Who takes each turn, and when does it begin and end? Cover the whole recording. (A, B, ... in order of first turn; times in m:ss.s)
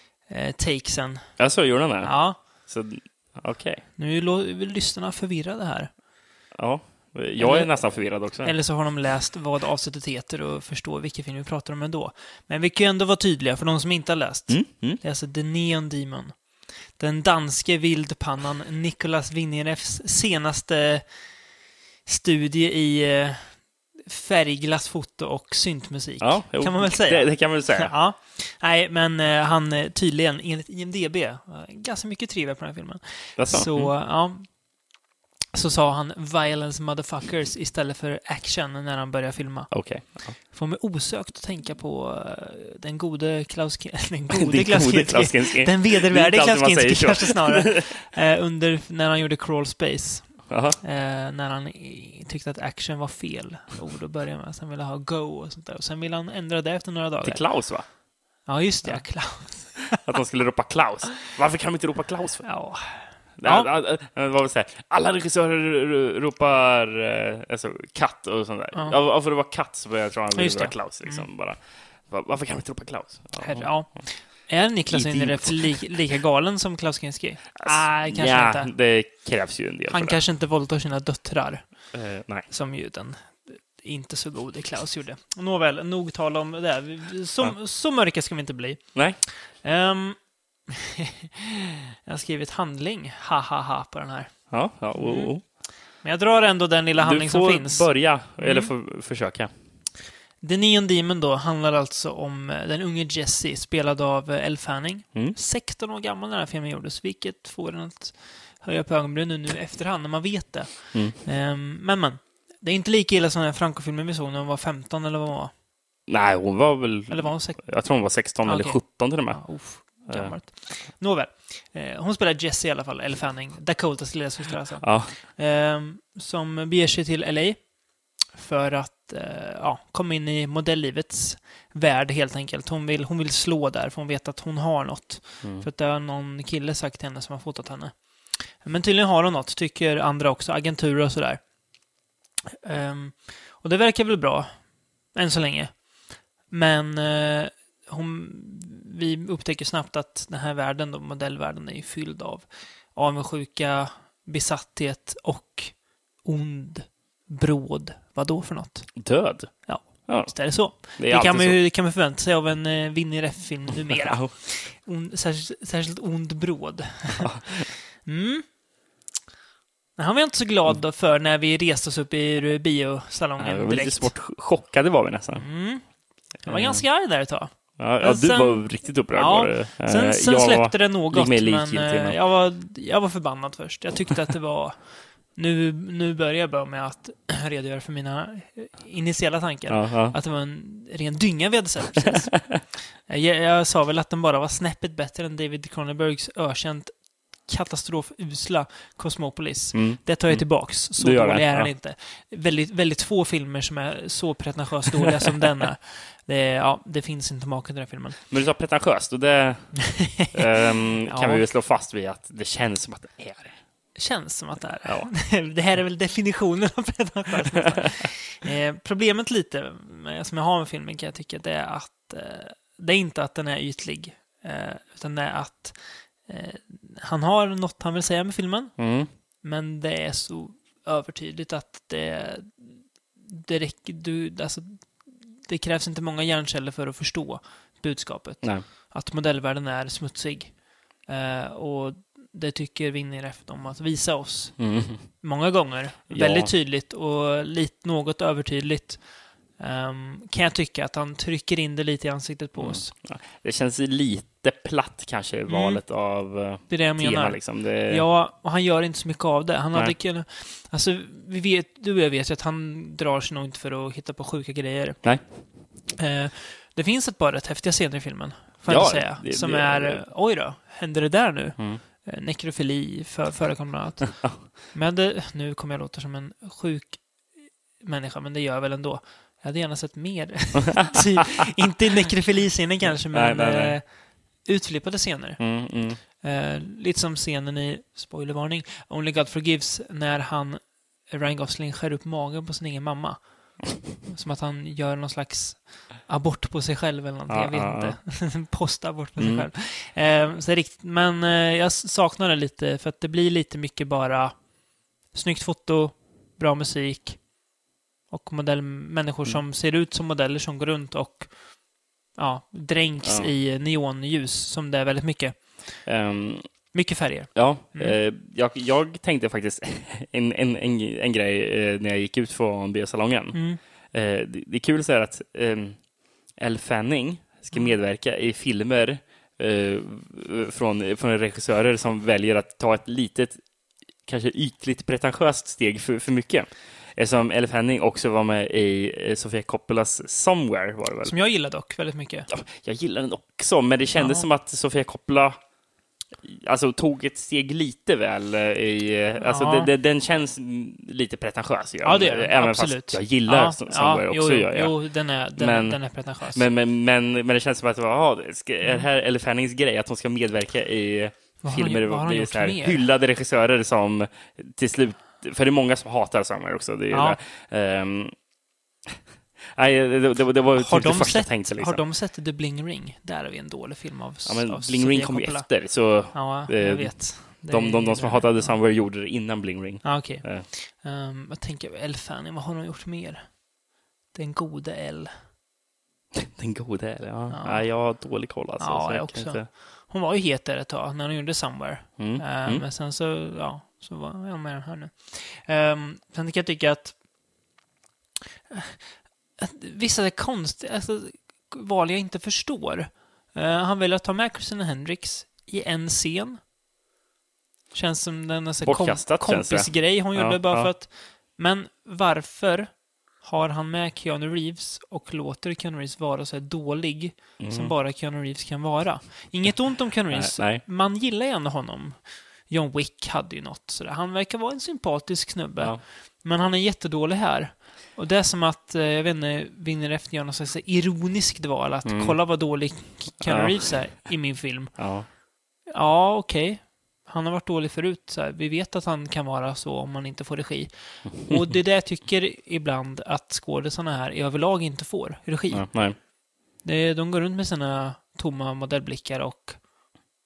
0:00.3-0:01.4 A
0:01.4-0:03.8 B
0:02.0-0:02.4 A
0:04.0-0:05.9 A
0:06.5-0:08.6 B
0:07.4-0:16.4 A
0:14.5-0:15.0 B
0:16.9-0:21.0 A
0:22.0-0:34.6 A
0:26.2-0:27.9 B
0:33.4-0:33.9 B
0:35.5-0:57.8 A
0:39.7-0:40.4 B
0:44.3-0:47.9 B
0:50.5-0:50.8 B
0:57.2-0:57.8 B
0:58.4-1:00.0 A
0:58.8-1:02.6 B
1:02.4-1:03.7 A
1:03.4-1:16.0 B
1:10.3-1:11.3 A
1:13.4-1:18.7 A
1:17.6-1:20.2 B
1:19.9-1:21.9 A
1:21.9-1:22.5 B
1:22.4-1:38.7 A
1:34.5-1:35.4 B
1:37.0-1:39.5 B
1:40.4-1:55.5 A
1:56.1-2:00.3 B
1:57.1-2:07.7 A
2:04.8-2:05.2 B
2:08.3-2:21.4 A
2:15.4-2:15.7 B
2:22.6-2:24.5 A
2:25.1-2:25.8 A
2:26.5-2:48.4 A
2:39.0-2:41.6 B
2:43.9-2:44.3 B
2:47.2-2:47.6 B
2:50.0-2:54.1 A
2:53.4-2:55.4 B
2:55.4-2:55.9 A
2:56.4-3:28.2 A
2:56.5-2:56.8 B
2:57.8-3:02.2 B
3:09.7-3:10.2 B
3:19.7-3:21.7 B
3:28.3-3:33.6 B
3:30.1-3:30.4 A
3:31.0-3:31.4 A
3:33.9-4:12.9 A
3:34.8-3:35.1 B
3:48.8-3:49.1 B
4:04.6-4:05.0 B
4:06.1-4:06.5 B
4:12.6-4:18.0 B
4:15.5-4:15.8 A
4:16.6-4:25.3 A
4:26.0-5:04.4 A
4:28.6-4:30.0 B
4:43.1-4:43.8 B
4:45.4-4:46.0 B
4:57.3-4:58.0 B
4:59.2-4:59.5 B
5:05.1-5:07.3 A
5:08.1-5:11.6 A
5:12.1-5:15.9 A
5:13.0-5:13.3 B
5:15.8-5:16.7 B
5:16.7-5:18.0 A
5:17.3-5:33.4 B
5:23.3-5:23.6 A
5:34.0-5:41.1 B
5:41.0-5:42.3 A
5:42.3-5:45.4 B
5:43.9-5:44.3 A
5:46.2-5:54.8 B
5:49.2-5:49.7 A
5:51.8-5:56.4 A
5:55.4-6:08.1 B
6:01.4-6:02.8 A
6:06.9-6:07.2 A
6:09.5-6:11.8 B
6:10.5-6:18.6 A
6:14.2-6:20.5 B
6:19.8-6:23.4 A
6:24.1-6:25.1 A
6:26.1-6:29.5 B
6:27.3-6:37.0 A
6:32.0-6:32.6 B
6:38.5-6:38.8 A
6:39.4-6:46.4 A
6:47.7-7:15.0 A
6:48.6-6:50.7 B
6:57.4-6:57.7 B
7:00.1-7:00.6 B
7:11.8-7:12.2 B
7:13.2-7:14.0 B
7:14.8-7:15.1 B
7:15.7-7:25.9 A
7:25.5-7:26.0 B
7:26.6-7:29.6 A